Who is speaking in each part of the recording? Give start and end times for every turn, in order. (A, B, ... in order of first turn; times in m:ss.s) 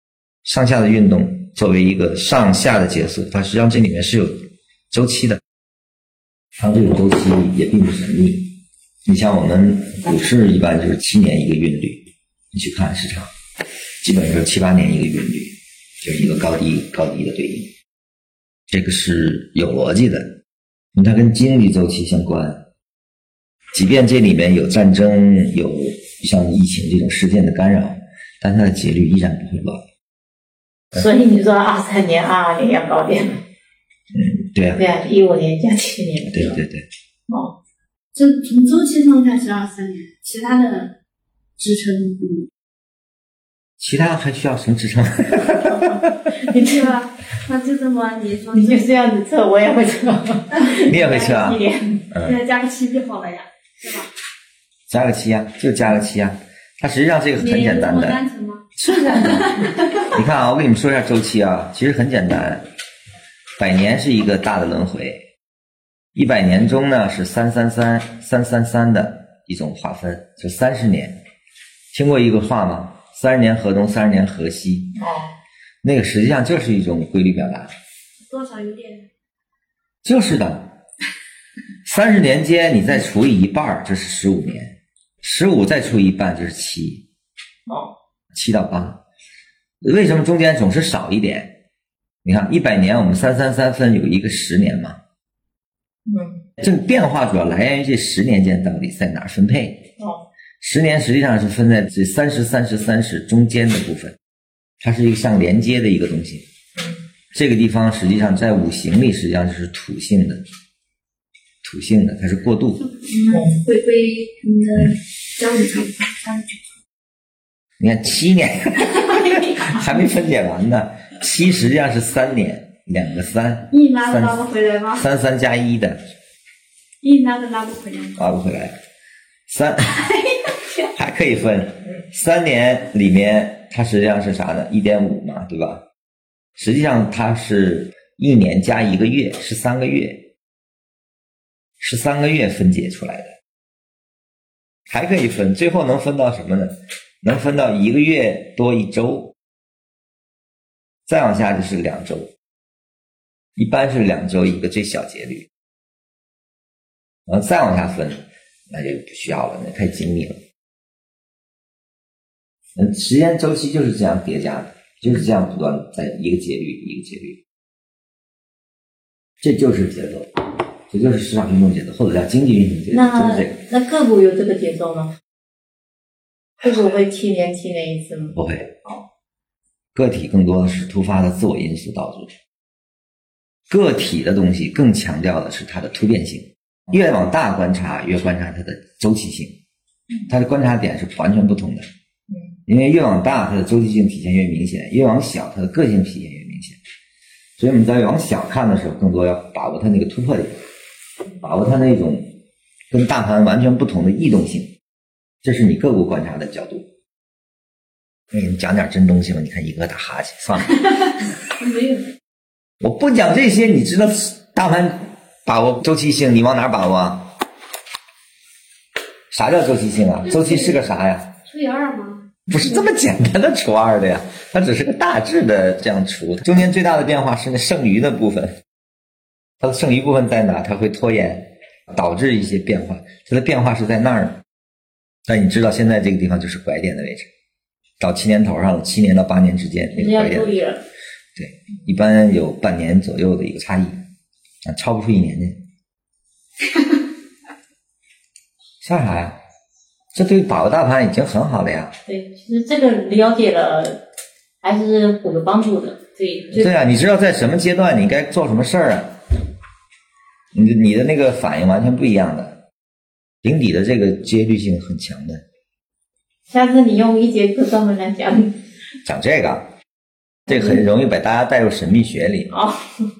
0:00.4-0:05.4 A
0:06.6-0:13.3 A
0:14.0-0:17.7 A
0:18.7-0:20.4 A
0:20.9-0:22.6 A
0:23.7-0:29.8 A
0:30.9-0:33.4 B
0:34.1-0:34.8 A
0:34.8-0:36.6 B
0:36.2-0:36.9 A
0:37.3-0:37.5 B
0:38.1-0:40.9 C
0:41.6-0:42.5 C
0:43.8-0:46.3 A
0:45.5-0:47.0 B
0:46.6-0:48.9 C
0:48.5-0:52.0 B
0:50.8-0:52.4 A
0:52.2-0:54.1 C
0:54.9-0:58.2 A
0:57.4-0:58.6 C
0:58.8-1:02.6 A
0:59.4-1:00.0 C
1:03.6-1:05.2 A
1:06.1-1:11.2 A
1:11.9-1:15.0 A
1:15.0-1:15.3 B
1:15.8-1:17.7 A
1:18.2-1:19.0 C
1:20.0-1:20.8 A
1:21.8-1:27.0 A
1:27.7-1:27.9 B
1:28.3-1:29.0 A
1:29.8-1:31.5 A
1:32.2-1:35.0 A
1:36.0-1:36.4 B
1:36.6-1:39.8 A
1:40.0-1:40.2 B
1:40.6-1:44.2 A
1:44.8-1:46.4 A
1:47.3-1:50.4 A
1:51.6-1:52.9 A
1:53.0-1:56.6 C
1:53.3-1:53.6 B
1:57.8-2:06.0 A
1:59.0-1:59.8 C
2:03.7-2:05.0 C
2:07.0-2:08.2 C
2:08.2-2:08.8 A
2:09.5-2:10.1 A
2:10.8-2:15.8 A
2:16.6-2:20.3 A
2:21.8-2:23.3 A
2:24.9-2:29.3 A
2:31.1-2:32.3 A
2:33.6-2:35.5 A
2:37.3-2:40.4 A
2:42.8-2:47.4 A
2:49.4-2:50.3 A
2:50.9-2:53.6 A
2:52.9-2:55.1 B
2:56.6-2:59.0 B
2:58.3-2:58.7 A
2:59.9-3:02.3 A
3:03.7-3:09.6 A
3:10.3-3:11.8 A
3:12.6-3:16.8 A
3:17.6-3:20.6 A
3:21.4-3:22.3 A
3:22.9-3:24.7 A
3:25.4-3:26.8 A
3:28.3-3:30.8 A
3:31.6-3:32.1 C
3:32.8-3:37.3 A
3:39.3-3:41.3 A
3:40.2-3:40.8 C
3:41.4-3:42.2 C
3:42.5-3:48.5 A
3:49.6-3:54.4 A
3:55.2-3:57.3 A
3:58.0-4:00.6 A
3:59.9-4:00.8 B
4:01.4-4:04.0 A
4:04.6-4:05.6 A
4:08.8-4:09.4 A
4:10.1-4:11.9 A
4:12.1-4:14.0 B
4:14.6-4:16.7 B
4:16.5-4:19.2 A
4:20.5-4:22.6 A
4:23.4-4:25.4 A
4:26.5-4:28.6 B
4:29.0-4:29.7 A
4:30.5-4:32.5 A
4:32.5-4:32.9 B